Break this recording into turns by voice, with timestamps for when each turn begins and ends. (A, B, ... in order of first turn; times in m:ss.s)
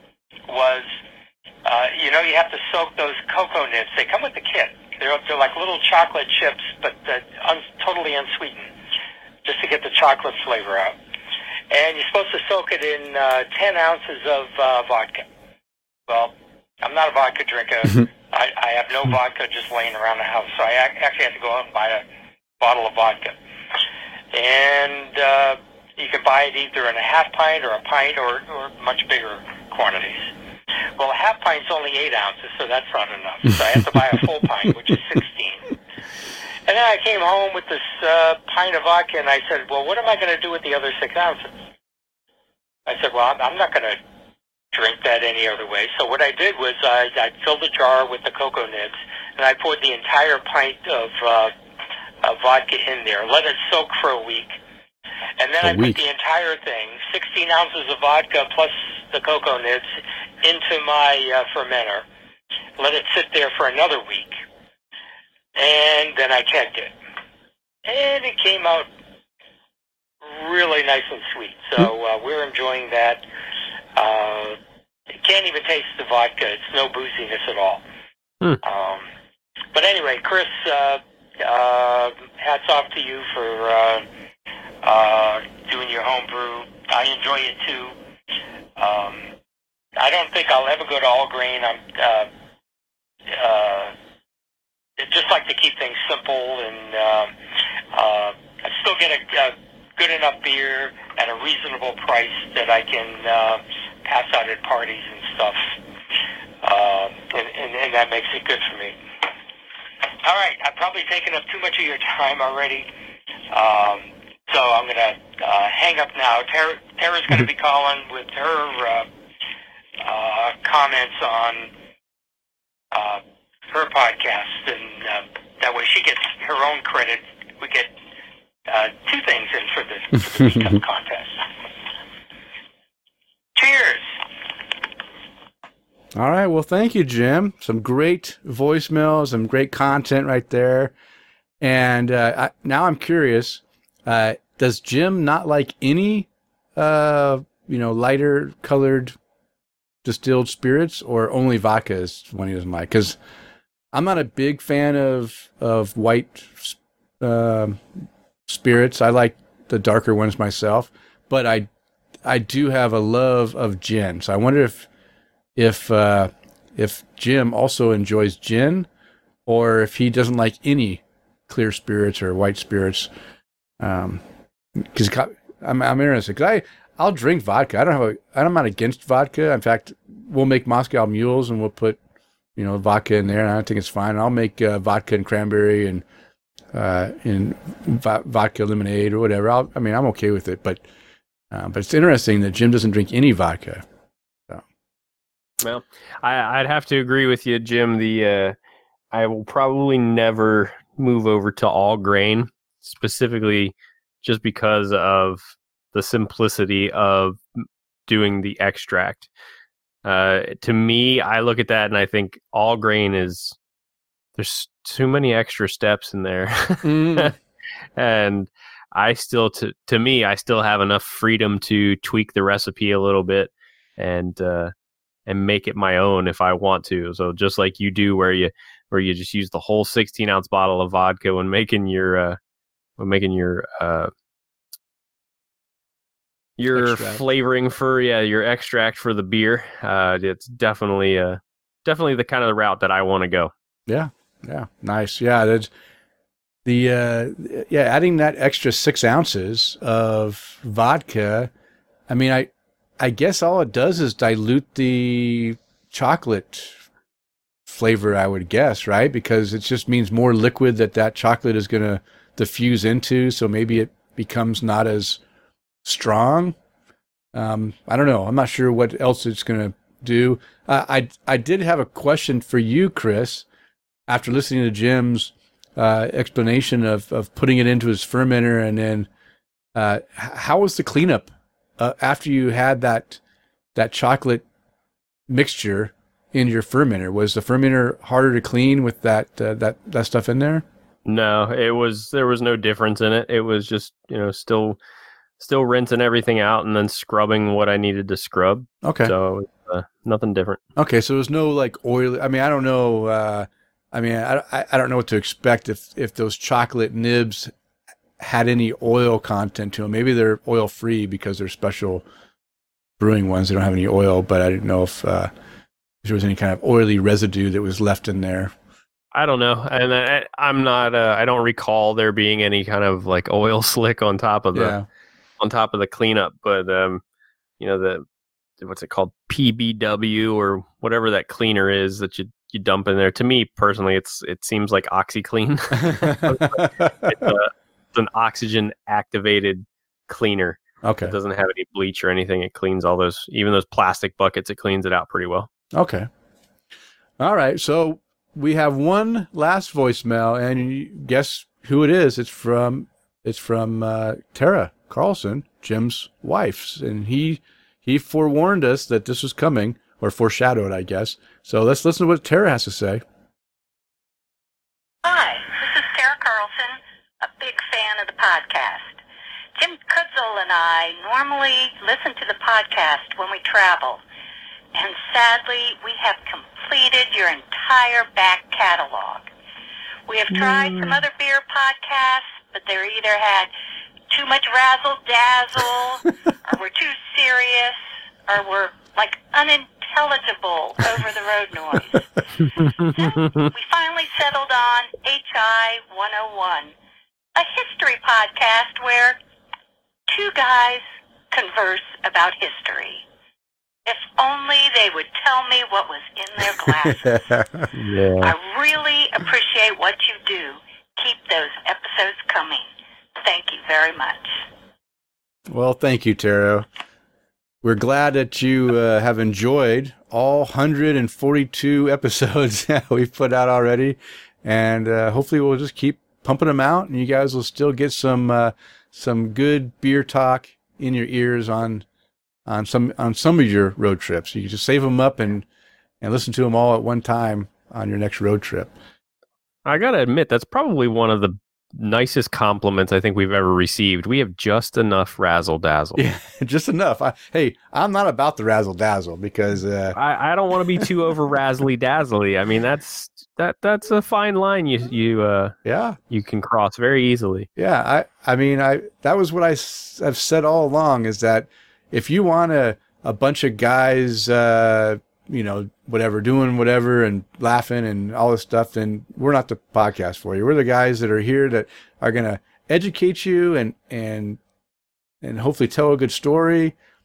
0:00.5-0:00.9 A
0:01.6-0:08.7 A
0:09.4-0:10.9 A
0:11.7-0:15.2 A
0:16.1-0:22.0 A
0:22.6-0:23.3 A
0:24.3-0:30.3 A
0:31.0-0:35.8 A
0:36.7-0:41.5 A
0:42.8-0:44.0 A
0:44.7-0:51.5 A
0:52.2-0:54.5 A
0:55.4-0:59.9 A
0:55.6-0:56.0 B
1:00.4-1:02.0 A
1:02.8-1:04.4 A
1:05.6-1:06.9 A
1:07.8-1:08.9 A
1:10.2-1:13.2 A
1:14.0-1:14.6 A
1:15.2-1:17.8 A
1:18.6-1:19.1 A
1:19.7-1:24.0 A
1:24.8-1:27.9 A
1:28.8-1:29.3 A
1:30.0-1:32.3 A
1:33.3-1:33.9 A
1:35.0-1:37.3 A
1:37.9-1:45.7 A
1:46.6-1:49.0 A
1:50.2-1:52.9 A
1:53.5-1:59.0 A
2:00.0-2:01.7 A
2:02.9-2:07.9 A
2:08.7-2:11.4 A
2:13.6-2:14.0 A
2:16.1-2:20.9 B
2:21.6-2:29.2 B
2:30.0-2:33.2 B
2:33.9-2:37.8 B
2:38.5-2:41.7 B
2:42.2-2:44.9 B
2:45.6-2:48.9 B
2:49.4-2:53.1 B
2:53.8-2:54.2 B
2:54.8-3:02.0 B
3:02.6-3:06.0 B
3:06.7-3:10.8 B
3:11.5-3:13.8 B
3:15.6-3:18.6 C
3:19.1-3:29.3 C
3:30.0-3:33.6 C
3:34.4-3:37.3 C
3:36.8-3:37.3 B
3:38.0-3:44.7 C
3:45.3-3:52.4 C
3:53.0-3:54.1 C
3:56.6-4:03.5 C
3:56.7-3:57.2 B
4:03.9-4:05.7 B
4:06.6-4:11.5 B
4:12.1-4:16.8 B
4:17.6-4:25.2 B
4:25.8-4:26.6 B
4:27.3-4:33.4 B
4:34.1-4:39.1 B
4:39.7-4:41.3 B
4:41.8-4:43.2 B
4:43.7-4:44.4 B
4:45.3-4:50.6 B
4:51.0-4:54.8 C
4:55.4-5:00.6 C
4:58.8-4:59.1 B
5:00.8-5:07.5 B
5:08.2-5:12.0 B
5:13.0-5:15.3 B
5:16.0-5:18.5 B
5:19.1-5:24.8 C
5:24.5-5:24.8 B
5:25.4-5:27.0 C
5:27.6-5:28.0 C
5:28.6-5:45.5 C
5:35.8-5:37.3 B
5:40.8-5:41.1 B
5:45.7-5:46.1 B
5:47.2-6:03.0 B
6:05.0-6:09.0 D
6:09.6-6:14.0 D
6:14.7-6:19.2 D
6:20.1-6:23.5 D
6:20.4-6:21.0 C
6:24.1-6:36.7 D
6:32.6-6:33.4 C
6:37.4-6:39.2 D
6:40.1-6:43.0 D
6:43.8-6:47.2 D
6:46.7-6:47.7 B
6:47.7-6:48.3 C
6:48.2-6:52.7 D
6:53.2-6:54.3 D
6:55.5-6:56.7 B
6:57.6-7:11.8 B
7:12.4-7:15.4 B
7:16.0-7:18.7 B
7:19.6-7:26.0 C
7:26.0-7:30.0 B
7:29.9-7:35.6 C
7:35.6-7:36.0 B
7:36.1-7:37.5 C
7:37.6-7:54.4 B
7:55.2-7:56.8 B